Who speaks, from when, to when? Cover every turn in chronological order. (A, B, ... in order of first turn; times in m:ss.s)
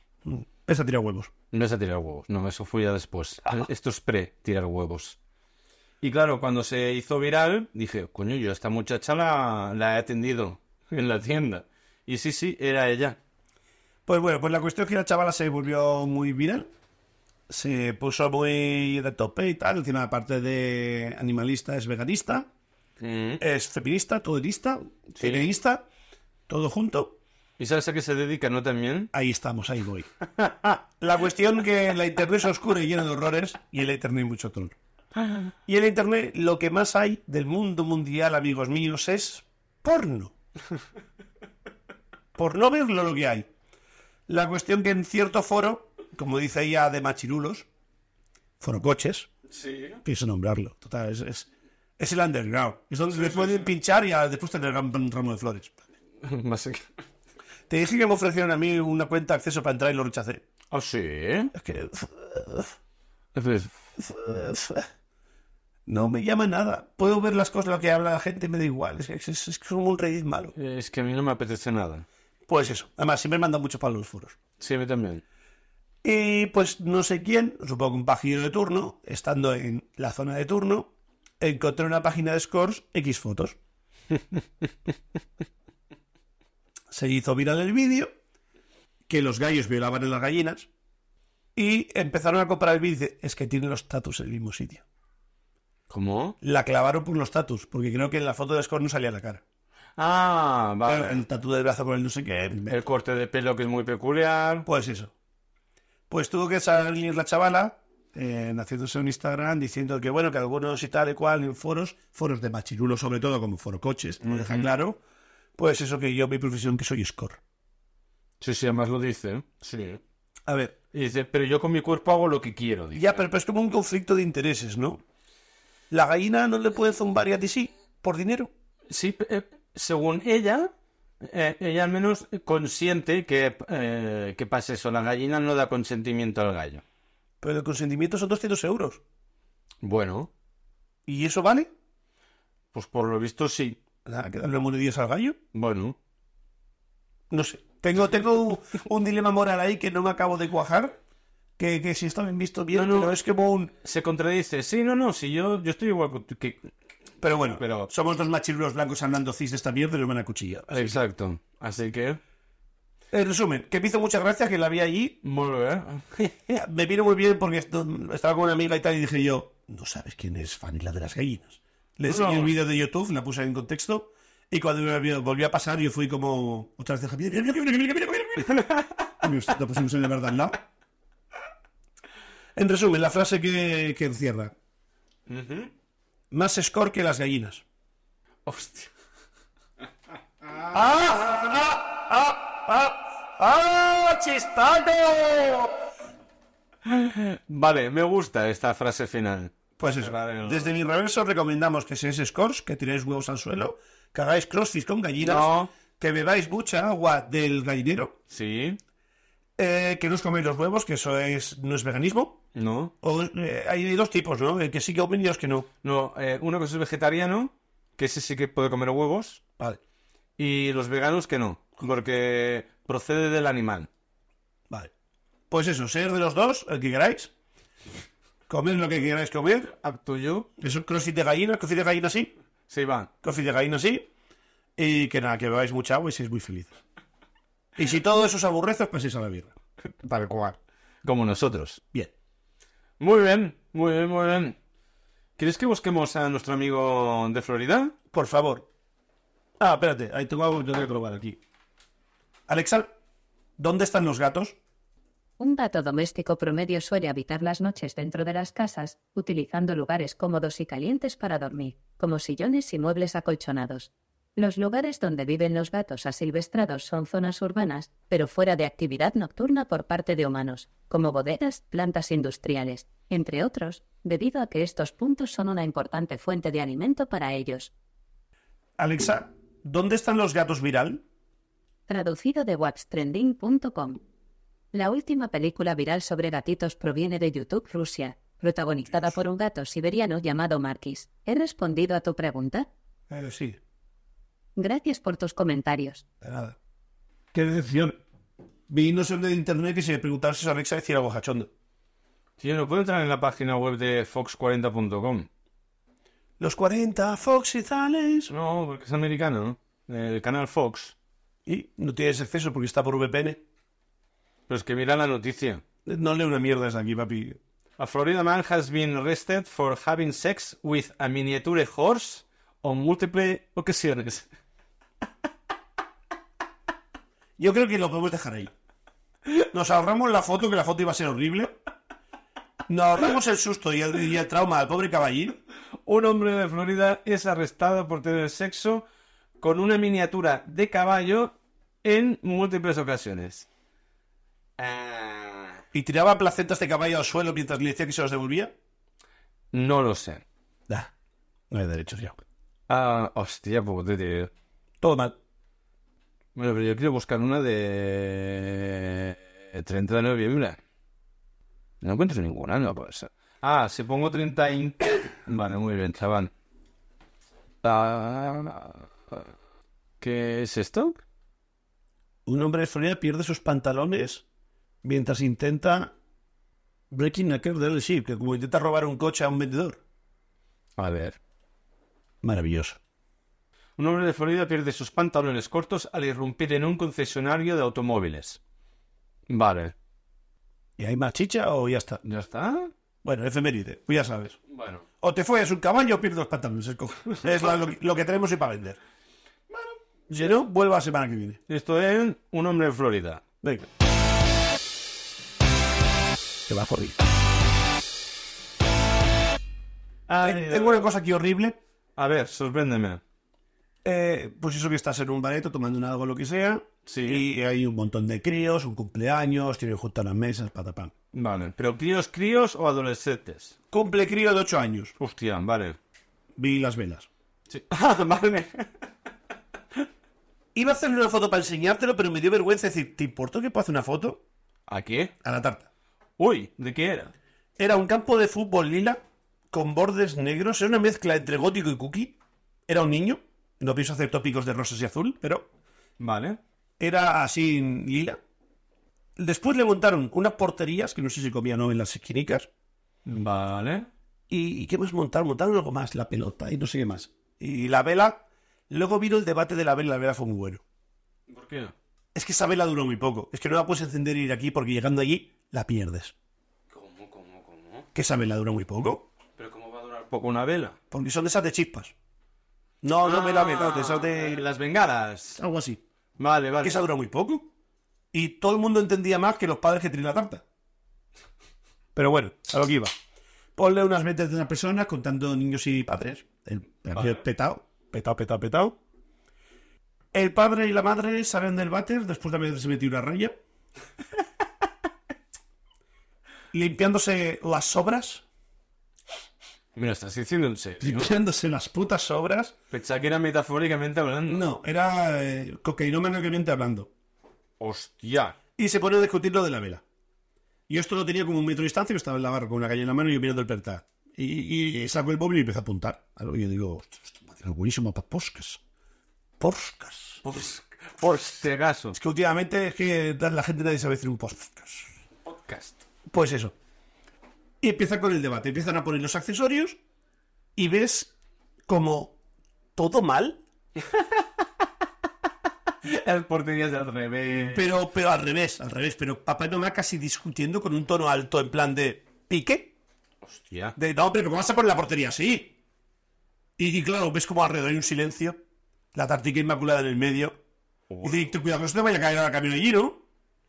0:00.2-0:01.3 A
0:01.5-0:05.2 B
0:06.0-0:13.2 B
0:14.0-0:16.7 A
0:17.5-0:22.5 A
0:23.0-0:23.4 B
0:23.4-0:25.8 A
0:25.2-0:25.4 B
0:26.5-0:27.2 A
0:27.6-0:29.1 B
0:29.1-0:30.1 A
0:30.9-0:34.8 A
0:35.6-0:40.3 A
0:42.3-0:43.5 A
0:44.3-0:47.7 A
0:48.6-0:49.3 A
0:49.5-0:50.0 B
0:50.0-0:55.8 A
0:53.2-0:53.5 B
0:56.2-0:56.8 B
0:57.7-1:00.4 A
1:00.7-1:01.5 B
1:01.5-1:02.7 A
1:03.3-1:03.8 B
1:04.0-1:04.9 A
1:05.9-1:10.5 A
1:10.6-1:12.0 B
1:12.5-1:14.4 A
1:14.6-1:15.2 B
1:16.0-1:23.6 A
1:26.9-1:28.1 A
1:29.1-1:30.7 A
1:31.6-1:34.8 A
1:35.9-1:36.4 B
1:36.4-1:39.4 A
1:40.0-1:41.2 B
1:40.8-1:42.8 A
1:42.6-1:44.6 B
1:44.6-1:45.1 A
1:46.1-1:55.0 A
1:54.2-1:54.6 B
1:55.6-1:57.4 A
1:58.4-2:00.0 B
2:00.4-2:00.8 A
2:00.9-2:03.2 B
2:02.9-2:05.0 A
2:05.9-2:08.5 A
2:08.9-2:16.8 B
2:17.4-2:19.0 A
2:19.8-2:20.3 B
2:21.0-2:21.7 A
2:22.7-2:23.8 B
2:24.0-2:25.4 A
2:25.5-2:26.0 B
2:27.3-2:31.0 A
2:31.6-2:33.7 A
2:32.7-2:33.1 B
2:33.8-2:36.7 B
2:37.2-2:41.0 A
2:37.5-2:37.9 B
2:40.7-2:42.2 B
2:43.1-2:45.2 A
2:45.2-2:46.3 B
2:46.5-2:58.7 A
2:52.1-2:52.5 B
2:58.6-2:58.9 B
2:59.2-3:00.6 A
3:02.6-3:04.5 A
3:05.3-3:05.7 B
3:06.3-3:07.6 A
3:08.4-3:08.9 B
3:10.7-3:15.7 A
3:16.8-3:20.7 B
3:19.8-3:28.2 A
3:25.2-3:25.7 B
3:28.3-3:28.8 B
3:29.6-3:32.4 A
3:32.5-3:32.9 B
3:33.0-3:35.7 A
3:35.8-3:39.4 B
3:40.4-3:43.9 B
3:45.5-3:47.3 A
3:48.5-3:49.7 A
3:49.8-3:50.5 B
3:50.6-3:52.3 A
3:52.7-3:53.1 B
3:53.2-3:54.1 A
3:54.8-3:56.8 A
3:57.8-3:59.5 A
4:00.0-4:01.8 B
4:03.0-4:04.6 B
4:05.4-4:07.9 B
4:08.1-4:08.7 A
4:09.6-4:11.4 A
4:12.5-4:12.9 A
4:13.6-4:14.6 A
4:15.4-4:37.7 C
4:38.8-4:41.0 A
4:41.9-4:44.0 C
4:44.7-4:52.7 C
4:53.1-4:53.6 A
4:54.6-4:56.0 C
4:56.2-4:56.6 A
4:57.3-4:58.0 A
4:58.7-5:01.5 A
5:02.4-5:05.3 B
5:06.4-5:08.3 A
5:08.3-5:10.9 B
5:11.4-5:13.4 A
5:14.5-5:15.6 B
5:15.8-5:17.4 A
5:17.8-5:24.3 B
5:27.4-5:28.5 A
5:29.5-5:31.5 A
5:32.7-5:35.4 A
5:35.8-5:38.8 B
5:39.4-5:43.5 B
5:44.6-5:45.6 B
5:45.7-5:48.5 A
5:49.5-5:50.2 B
5:51.5-5:52.2 A
5:52.7-5:54.3 B
5:54.8-5:55.2 A
5:56.3-6:00.6 B
6:01.8-6:06.3 B
6:07.6-6:09.3 B
6:10.0-6:11.0 B
6:12.2-6:14.2 A
6:14.8-6:15.9 A
6:16.9-6:19.8 A
6:20.8-6:21.2 B
6:22.2-6:22.8 A
6:23.8-6:28.4 B
6:29.3-6:29.7 B
6:30.8-6:32.0 A
6:32.0-6:32.7 B
6:33.0-6:34.4 A
6:34.5-6:34.8 B
6:35.0-6:38.8 A
6:40.1-6:41.4 A
6:41.5-6:43.2 B
6:43.4-6:43.7 A
6:46.5-6:47.0 A
6:50.1-6:50.8 B
6:50.2-6:51.6 A
6:52.0-6:53.0 B
6:53.8-7:00.9 A
6:56.8-6:57.2 B
7:01.1-7:03.5 B
7:03.7-7:04.9 A
7:05.0-7:05.8 B
7:06.4-7:07.1 A
7:07.5-7:08.7 B
7:10.5-7:14.2 A
7:14.7-7:15.1 B
7:15.2-7:15.7 A
7:16.2-7:17.1 B
7:17.6-7:19.0 A
7:19.5-7:25.5 A
7:26.0-7:26.4 B
7:26.8-7:28.2 A
7:29.2-7:32.5 A
7:33.0-7:33.9 B
7:34.3-7:40.6 A
7:41.3-7:41.7 B
7:42.1-7:46.1 A
7:46.7-7:47.9 B
7:47.9-7:49.1 A
7:49.4-7:50.8 B
7:50.9-7:51.9 A
7:52.8-7:54.4 A
7:53.0-7:55.4 B
7:55.4-7:55.8 A
7:56.2-7:56.8 B
7:56.6-7:57.5 A
7:58.1-8:00.4 A
8:01.9-8:02.9 A
8:03.6-8:08.8 A
8:10.1-8:13.4 A
8:16.5-8:18.2 A
8:19.7-8:21.1 B
8:20.8-8:22.5 A
8:22.7-8:24.4 B
8:24.3-8:26.9 A
8:27.6-8:28.4 B
8:28.6-8:29.8 A
8:30.7-8:38.6 A
8:39.4-8:40.2 A
8:40.2-8:42.0 B
8:41.9-8:44.9 A
8:45.2-8:45.8 B
8:46.1-8:46.5 A
8:47.6-8:49.8 A
8:50.6-8:51.1 A
8:51.7-8:52.2 A
8:52.8-8:53.4 A
8:55.8-8:57.7 B
8:57.5-9:02.7 A
9:03.2-9:03.8 B
9:03.8-9:05.5 A
9:06.6-9:08.4 A
9:08.9-9:10.4 A
9:10.9-9:11.2 B
9:11.0-9:13.0 A